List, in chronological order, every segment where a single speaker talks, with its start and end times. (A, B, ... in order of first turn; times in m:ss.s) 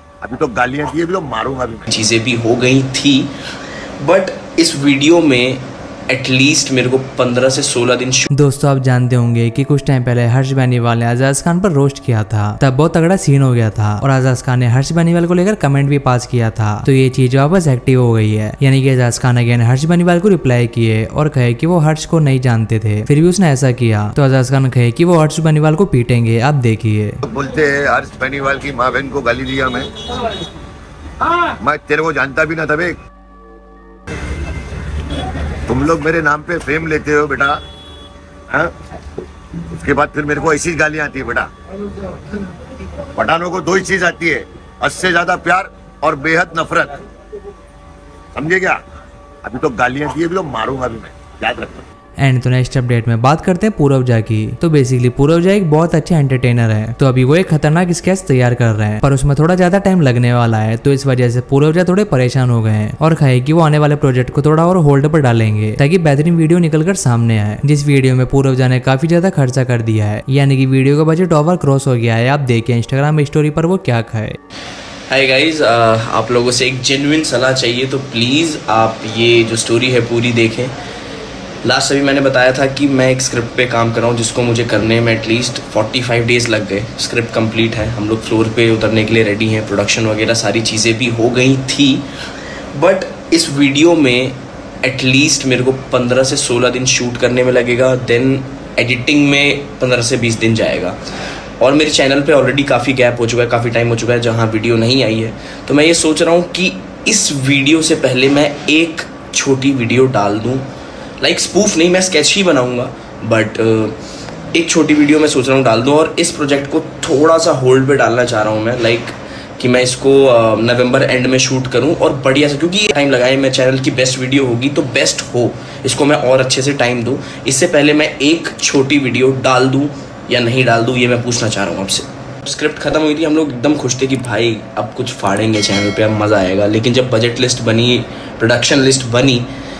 0:00.2-0:01.9 A
0:01.9-0:03.3 B
0:04.0-0:08.3 B
0:08.4-0:27.2 C
0:27.2-0:29.9 A
0:31.6-0:33.0 A
0:35.7-0:37.6 A
0:39.8-0:41.5 A
0:43.2-0:46.9 A
0:48.4-0:48.8 A
0:49.4-0:51.8 A
0:52.2-1:14.4 C
1:15.1-1:20.7 B
1:21.6-1:32.1 B
1:32.8-1:41.0 B
1:41.6-1:50.7 B
1:51.2-1:54.0 B
1:54.5-2:19.5 B